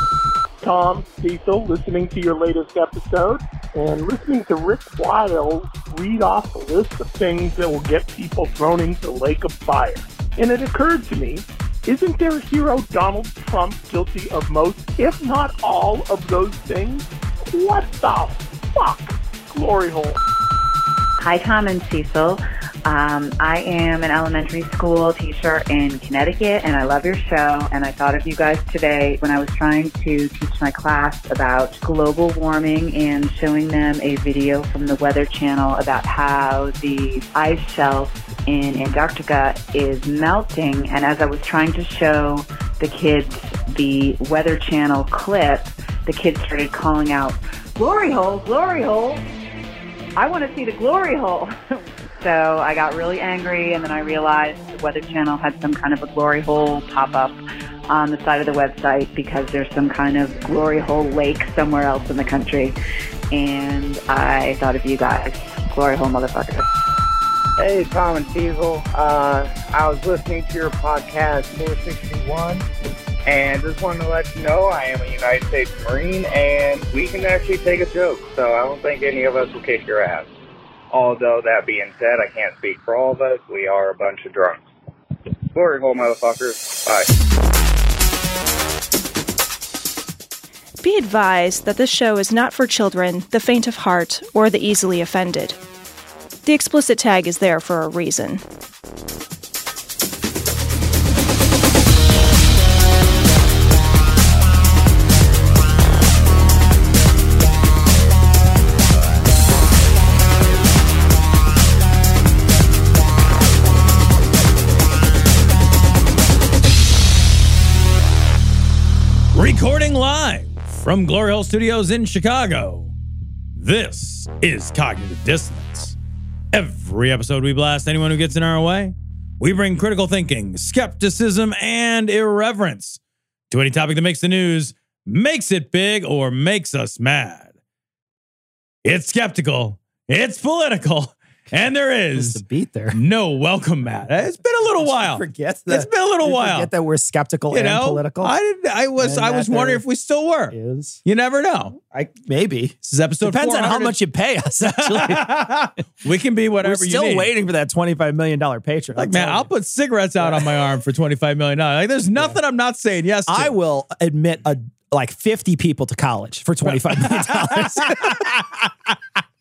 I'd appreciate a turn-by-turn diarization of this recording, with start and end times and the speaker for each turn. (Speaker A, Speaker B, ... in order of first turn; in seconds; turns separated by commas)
Speaker A: 0.6-20.2, Speaker B: 21.2-49.2, Speaker B: 50.1-62.8, Speaker B: 63.3-66.7, Speaker C: 67.6-72.7, Speaker C: 73.2-80.3, Speaker C: 80.9-84.7, Speaker C: 85.5-87.1, Speaker D: 90.8-95.6, Speaker D: 96.4-98.4, Speaker E: 119.3-122.9, Speaker E: 123.5-126.0, Speaker E: 126.5-133.0, Speaker E: 133.5-137.5, Speaker E: 138.8-142.4, Speaker F: 142.1-143.0, Speaker E: 142.9-146.7, Speaker F: 144.8-148.3, Speaker E: 147.5-151.8, Speaker F: 149.0-149.8, Speaker F: 150.5-151.0, Speaker F: 151.9-155.5, Speaker E: 152.8-154.0, Speaker E: 154.6-157.3, Speaker F: 156.6-159.5, Speaker E: 158.9-163.5, Speaker F: 160.2-160.5, Speaker F: 163.3-168.6, Speaker E: 166.7-167.8